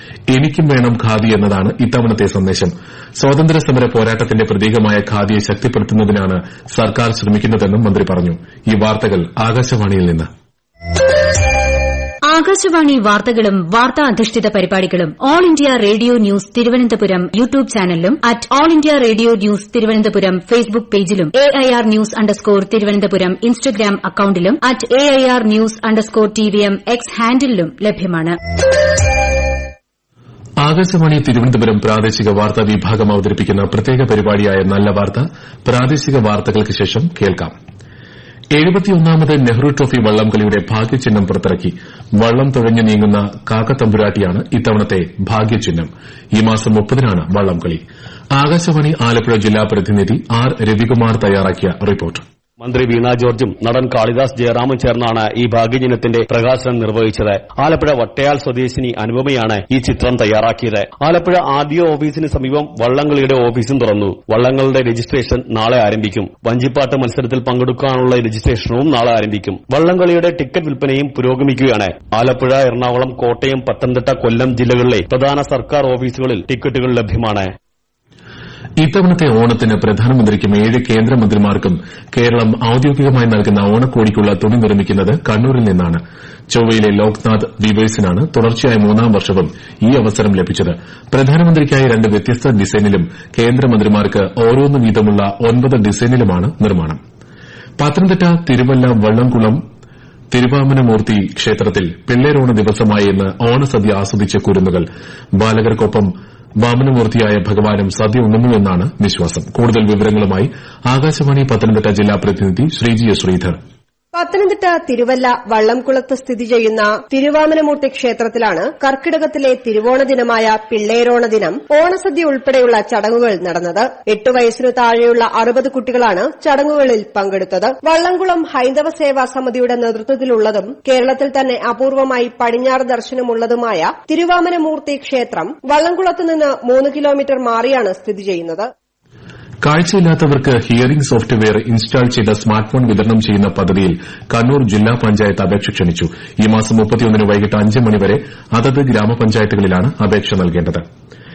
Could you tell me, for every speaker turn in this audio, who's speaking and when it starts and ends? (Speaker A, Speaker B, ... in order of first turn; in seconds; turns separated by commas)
Speaker A: 0.3-10.3, Speaker B: 12.3-28.4, Speaker A: 30.6-37.5, Speaker A: 38.5-47.8, Speaker A: 48.4-52.2, Speaker C: 52.6-77.5, Speaker A: 78.8-86.0, Speaker A: 86.5-97.0, Speaker A: 97.8-99.6, Speaker A: 100.3-104.9, Speaker A: 105.4-106.1, Speaker A: 106.6-113.6, Speaker D: 114.1-138.7, Speaker A: 139.6-150.8